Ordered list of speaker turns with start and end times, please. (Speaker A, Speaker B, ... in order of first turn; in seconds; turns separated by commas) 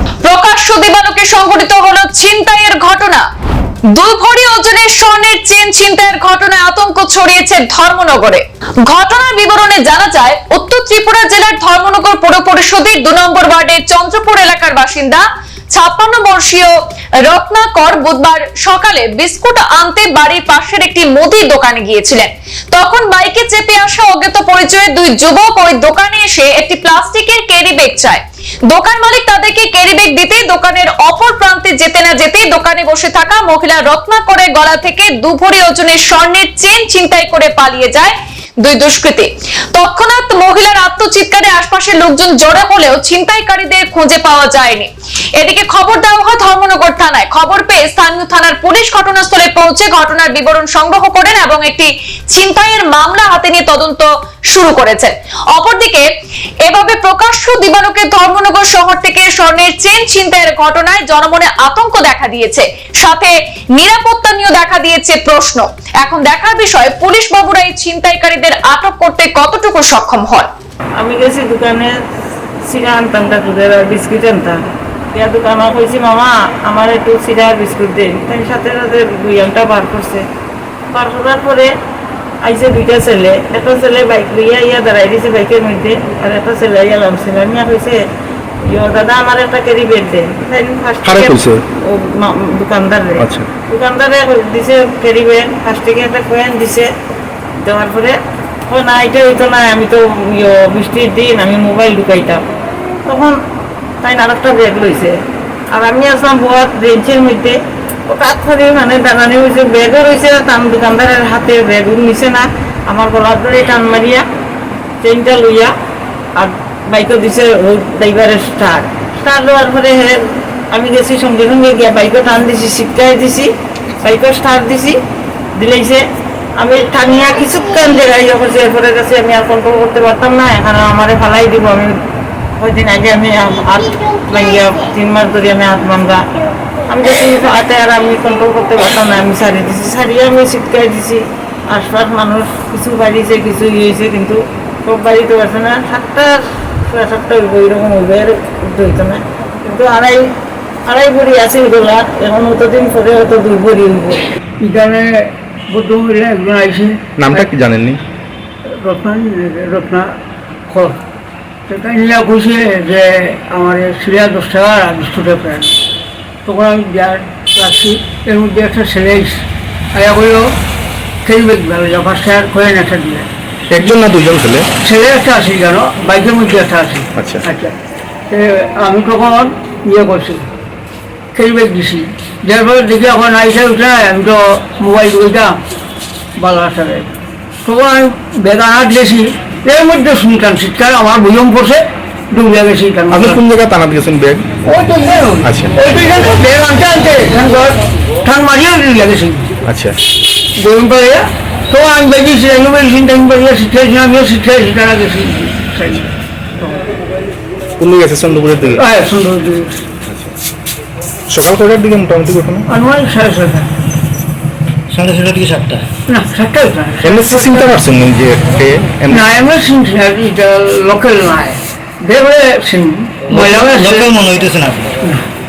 Speaker A: 0.2-3.2, Speaker A: 3.9-16.7, Speaker A: 17.2-56.0, Speaker A: 56.6-70.5, Speaker B: 71.0-71.9, Speaker B: 72.7-74.6, Speaker B: 75.1-80.2, Speaker B: 80.9-81.7, Speaker B: 82.4-88.0, Speaker B: 88.7-96.9, Speaker C: 91.0-91.6, Speaker C: 93.2-93.5, Speaker B: 97.6-98.2, Speaker B: 98.7-102.4, Speaker B: 103.0-103.4, Speaker B: 104.0-105.2, Speaker B: 105.7-114.2, Speaker B: 115.0-115.7, Speaker B: 116.3-120.2, Speaker B: 120.7-123.5, Speaker B: 124.0-125.0, Speaker B: 125.5-126.0, Speaker B: 126.6-132.0, Speaker B: 132.6-136.2, Speaker B: 136.9-141.2, Speaker B: 141.7-150.2, Speaker B: 150.8-154.2, Speaker D: 154.6-155.0, Speaker D: 155.8-157.4, Speaker C: 157.2-158.0, Speaker D: 158.8-160.0, Speaker D: 160.7-161.0, Speaker D: 161.8-165.6, Speaker D: 166.5-169.3, Speaker D: 170.0-170.4, Speaker D: 171.2-173.2, Speaker C: 173.7-174.7, Speaker D: 174.8-177.7, Speaker C: 177.2-177.4, Speaker D: 178.6-180.4, Speaker D: 181.3-185.5, Speaker D: 186.4-187.0, Speaker D: 187.7-191.8, Speaker D: 192.5-193.4, Speaker C: 193.1-194.7, Speaker D: 194.7-199.4, Speaker C: 195.4-195.8, Speaker C: 199.7-200.0, Speaker D: 200.6-206.1, Speaker C: 207.8-208.8, Speaker D: 208.8-209.8, Speaker C: 211.3-212.7, Speaker D: 212.7-213.7, Speaker E: 215.0-215.8, Speaker D: 216.1-217.6, Speaker C: 217.0-219.2, Speaker D: 219.1-224.1, Speaker E: 223.3-224.9